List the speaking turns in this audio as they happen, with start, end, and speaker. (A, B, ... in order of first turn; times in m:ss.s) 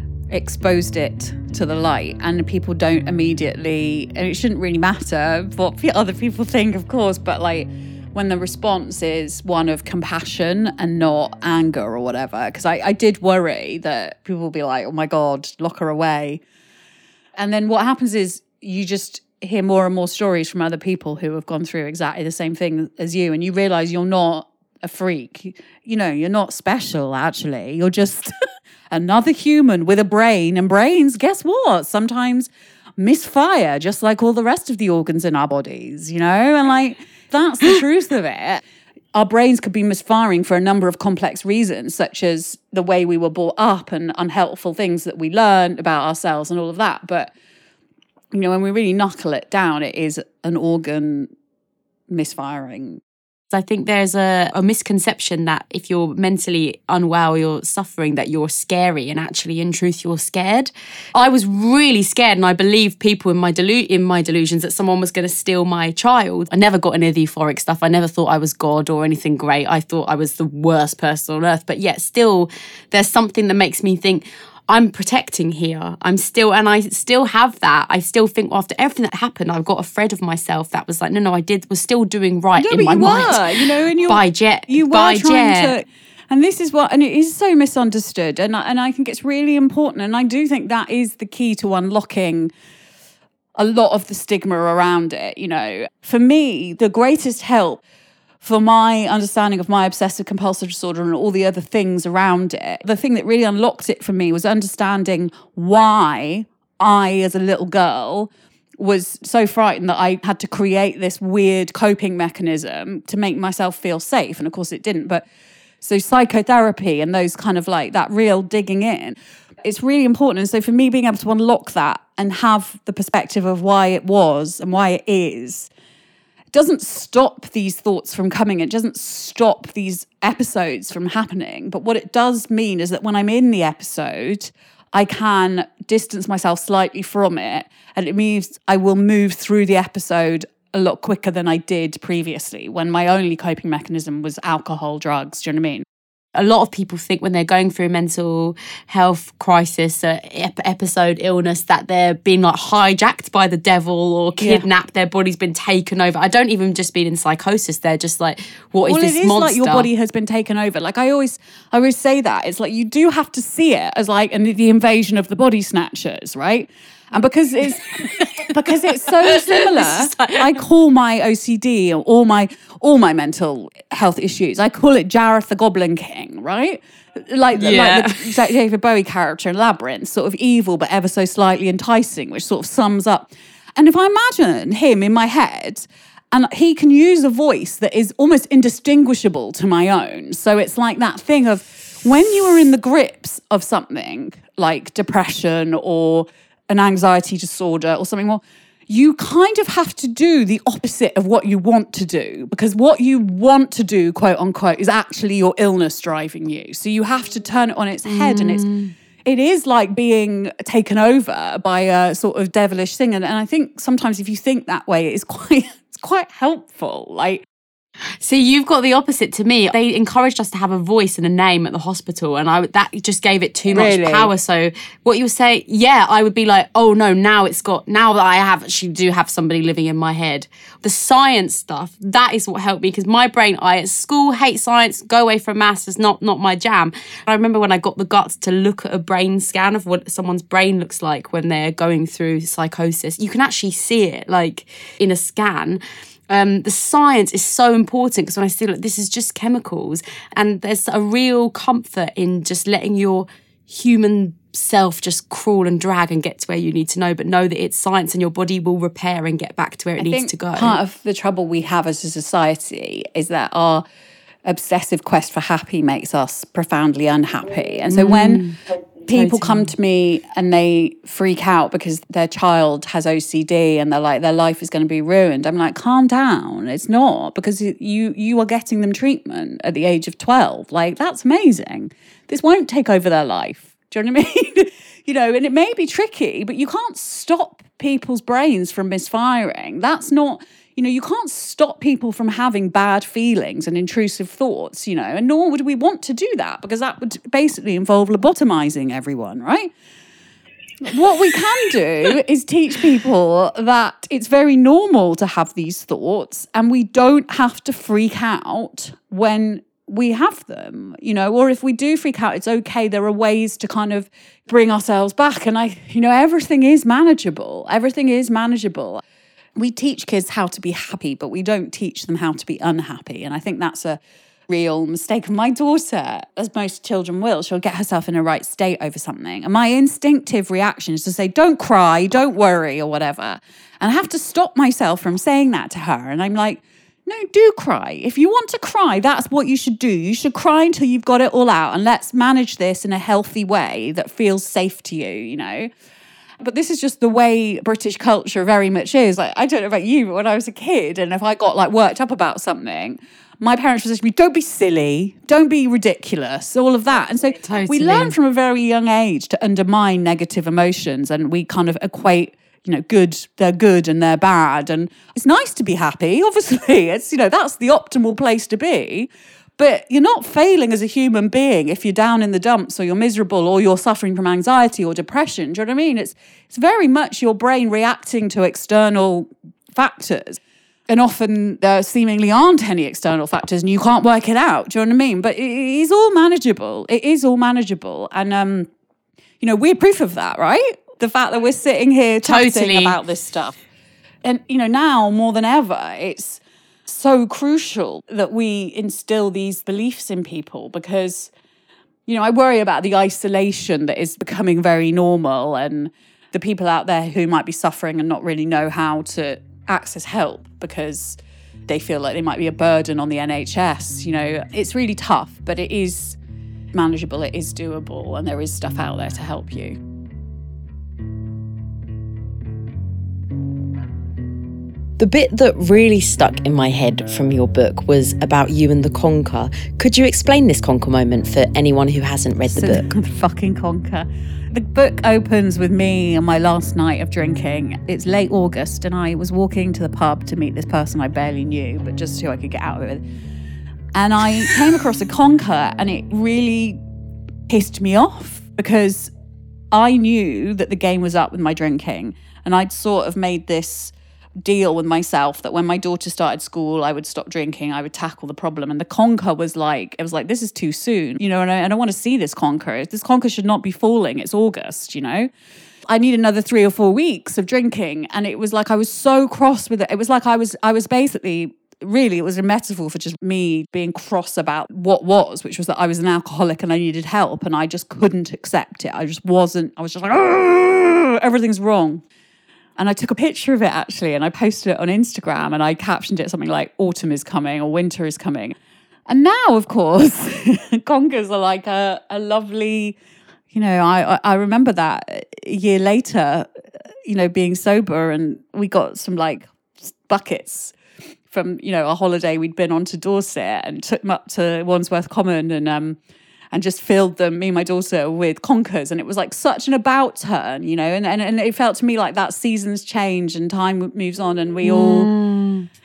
0:00.3-0:16.4 A
0:17.4-0:28.3 A
0:28.9-0:38.6 A
0:39.1-0:47.3 A
0:48.3-0:51.3 A
0:52.1-0:53.0 A
0:53.5-1:25.7 B
1:22.6-1:32.5 A
1:33.6-1:37.8 A
1:38.4-1:55.2 A
1:55.8-2:05.7 A
2:06.5-2:25.8 A
2:26.4-2:39.9 B
2:34.4-2:34.6 A
2:38.8-3:28.6 A
2:48.0-2:48.5 B
2:49.3-2:50.5 B
2:57.5-2:58.4 B
3:28.0-3:28.9 B
3:29.2-3:37.4 A
3:38.2-4:20.8 B
3:43.7-3:44.3 A
4:20.0-4:23.8 A
4:24.4-4:28.5 A
4:27.9-4:28.6 B
4:29.0-4:59.7 A
4:29.1-4:29.7 B
5:00.8-5:19.0 A
5:19.6-5:45.7 A
5:46.4-6:28.7 A
5:57.4-5:58.1 B
6:29.4-6:33.6 A
6:32.2-6:33.0 B
6:34.2-6:41.3 A
6:42.1-6:56.2 A
6:56.7-6:59.8 A
7:05.0-7:12.9 C
7:12.4-7:23.0 A
7:23.9-7:26.8 A
7:27.5-7:29.1 A
7:29.7-7:45.3 A
7:45.9-8:02.0 A
8:02.8-8:08.6 A
8:09.1-8:13.0 A
8:13.5-8:16.5 A
8:17.1-8:19.5 A
8:20.1-8:20.7 A
8:21.3-8:26.0 A
8:26.5-8:35.1 A
8:34.6-8:35.7 B